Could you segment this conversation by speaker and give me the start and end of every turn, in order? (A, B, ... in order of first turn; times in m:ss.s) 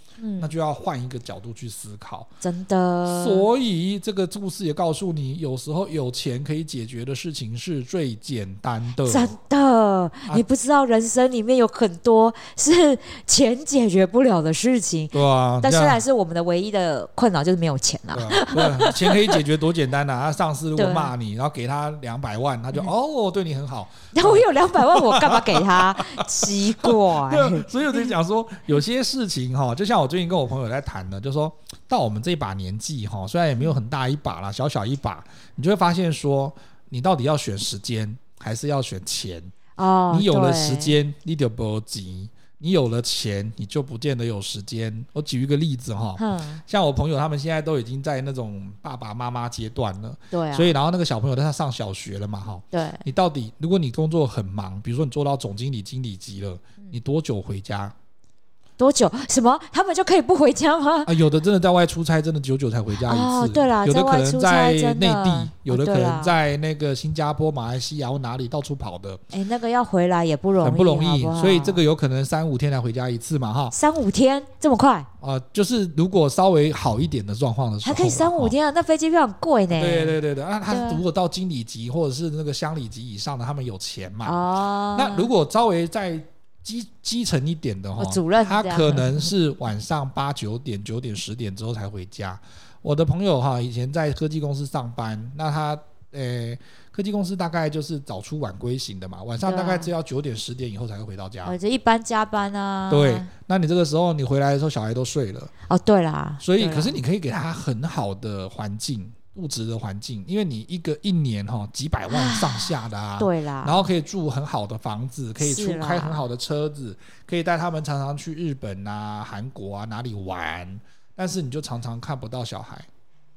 0:00.2-0:00.5 A
0:00.4-0:02.3 B
0:02.4-0:03.5 A
0:03.1-0:09.3 B
0:09.0-0:19.4 A
0:15.1-0:16.0 B
0:18.1-0:39.5 B
0:20.8-0:21.1 A
0:24.1-0:28.1 A
0:39.8-0:40.9 A
0:40.1-0:57.9 B
0:46.2-0:46.6 A
0:50.3-0:50.7 A
0:52.7-0:53.0 A
0:58.8-1:01.1 A
1:01.1-1:09.2 B
1:03.0-1:06.4 A
1:09.3-1:11.8 A
1:10.6-1:13.8 B
1:13.7-1:15.1 A
1:15.2-1:18.5 B
1:17.8-1:20.2 A
1:19.7-1:24.4 B
1:20.7-1:21.0 A
1:24.2-1:25.3 A
1:25.0-1:41.6 B
1:28.0-1:29.3 A
1:39.4-1:39.9 A
1:41.4-1:43.3 A
1:42.9-1:45.5 B
1:45.7-1:47.0 A
1:46.4-2:02.9 B
1:52.1-1:53.9 A
1:55.4-1:56.2 A